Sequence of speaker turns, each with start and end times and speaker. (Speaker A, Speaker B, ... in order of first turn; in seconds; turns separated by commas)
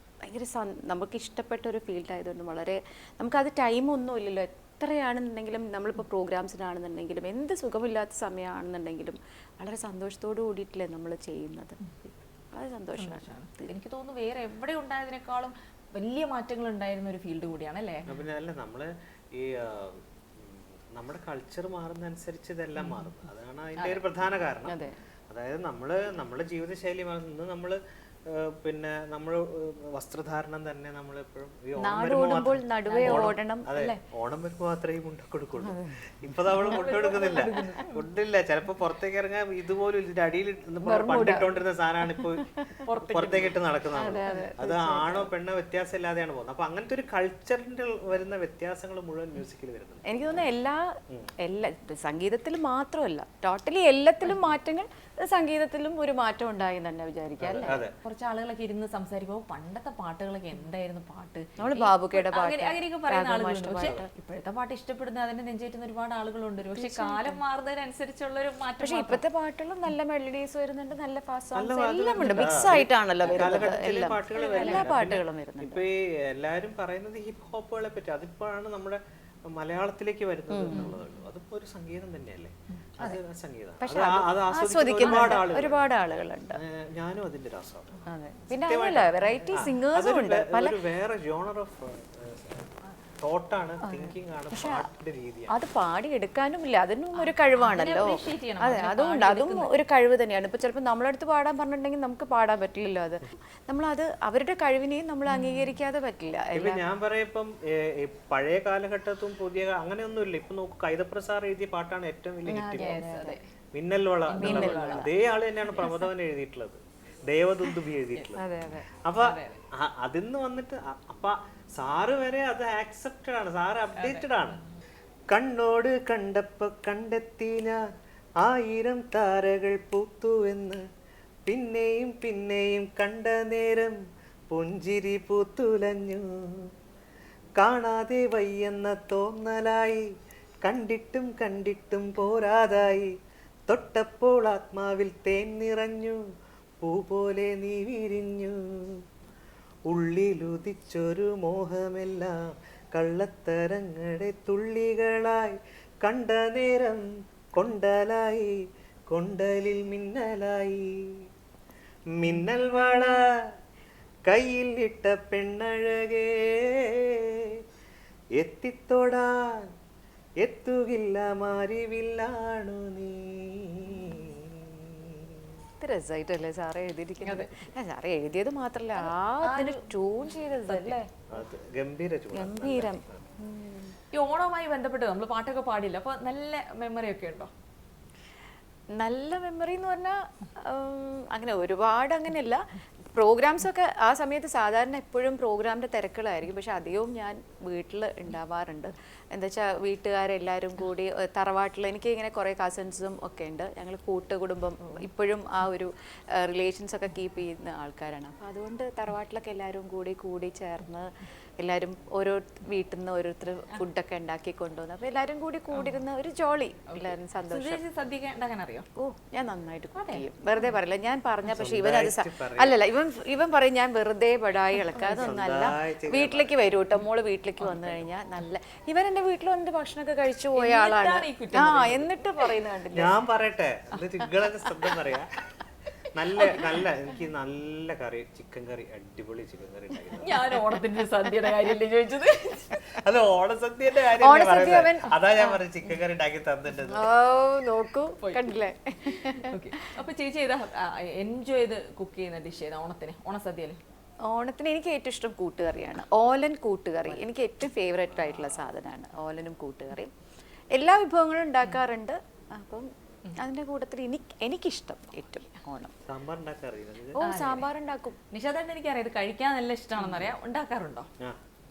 Speaker A: 0.2-11.8, Speaker B: 11.8-12.1, Speaker A: 12.5-13.7, Speaker B: 13.0-18.1, Speaker C: 18.1-24.8, Speaker B: 22.8-23.0, Speaker A: 24.7-24.9, Speaker C: 25.3-42.5, Speaker A: 31.8-34.0, Speaker B: 32.9-33.4, Speaker A: 35.6-36.0, Speaker B: 36.6-38.1, Speaker A: 36.6-37.6, Speaker A: 40.8-41.5, Speaker A: 42.0-42.8, Speaker B: 42.9-43.5, Speaker C: 43.1-50.1, Speaker A: 43.9-45.3, Speaker A: 50.1-50.9, Speaker A: 51.4-57.9, Speaker B: 57.5-69.2, Speaker C: 57.5-58.0, Speaker A: 61.6-64.1, Speaker A: 66.8-67.4, Speaker A: 68.8-75.8, Speaker C: 71.5-85.9, Speaker B: 72.2-72.7, Speaker B: 73.3-74.9, Speaker A: 80.5-81.0, Speaker A: 83.8-86.6, Speaker B: 85.0-85.5, Speaker C: 86.5-95.5, Speaker A: 88.1-90.8, Speaker A: 93.8-94.8, Speaker A: 95.5-106.8, Speaker B: 97.2-99.7, Speaker B: 105.3-105.7, Speaker C: 106.5-113.0, Speaker A: 112.5-113.4, Speaker B: 112.8-113.4, Speaker C: 113.7-118.4, Speaker B: 114.3-115.1, Speaker A: 114.4-115.1, Speaker A: 118.4-118.9, Speaker C: 119.0-124.6, Speaker B: 119.2-119.6, Speaker B: 124.0-124.3, Speaker C: 125.3-127.8, Speaker C: 128.4-130.8, Speaker C: 131.5-136.7, Speaker C: 137.6-140.0, Speaker C: 140.6-143.1, Speaker C: 143.7-146.2, Speaker C: 146.8-149.0, Speaker C: 149.9-152.4, Speaker C: 152.9-158.6, Speaker C: 159.1-161.1, Speaker C: 162.2-163.2, Speaker C: 164.3-167.6, Speaker C: 168.4-169.7, Speaker C: 170.4-175.5, Speaker A: 175.8-181.1, Speaker B: 177.2-177.5, Speaker B: 179.0-179.8, Speaker B: 180.7-181.0, Speaker C: 181.3-183.2, Speaker A: 182.3-184.0, Speaker B: 184.1-187.5, Speaker A: 189.0-192.6, Speaker A: 193.1-217.8, Speaker B: 216.9-218.9, Speaker A: 219.0-233.2, Speaker B: 220.0-220.3, Speaker C: 221.5-222.8, Speaker B: 224.9-225.4, Speaker C: 225.2-226.5, Speaker B: 230.6-232.5, Speaker C: 232.9-235.4, Speaker C: 236.1-240.4, Speaker B: 240.2-242.8, Speaker C: 243.0-247.1, Speaker A: 244.2-245.6, Speaker A: 246.9-249.6, Speaker B: 248.2-248.5, Speaker B: 249.2-253.8, Speaker A: 254.3-260.1, Speaker A: 260.8-262.9, Speaker A: 263.4-265.9, Speaker C: 266.1-267.2, Speaker A: 267.1-268.2, Speaker B: 267.2-267.7, Speaker B: 268.3-271.1, Speaker A: 270.0-270.3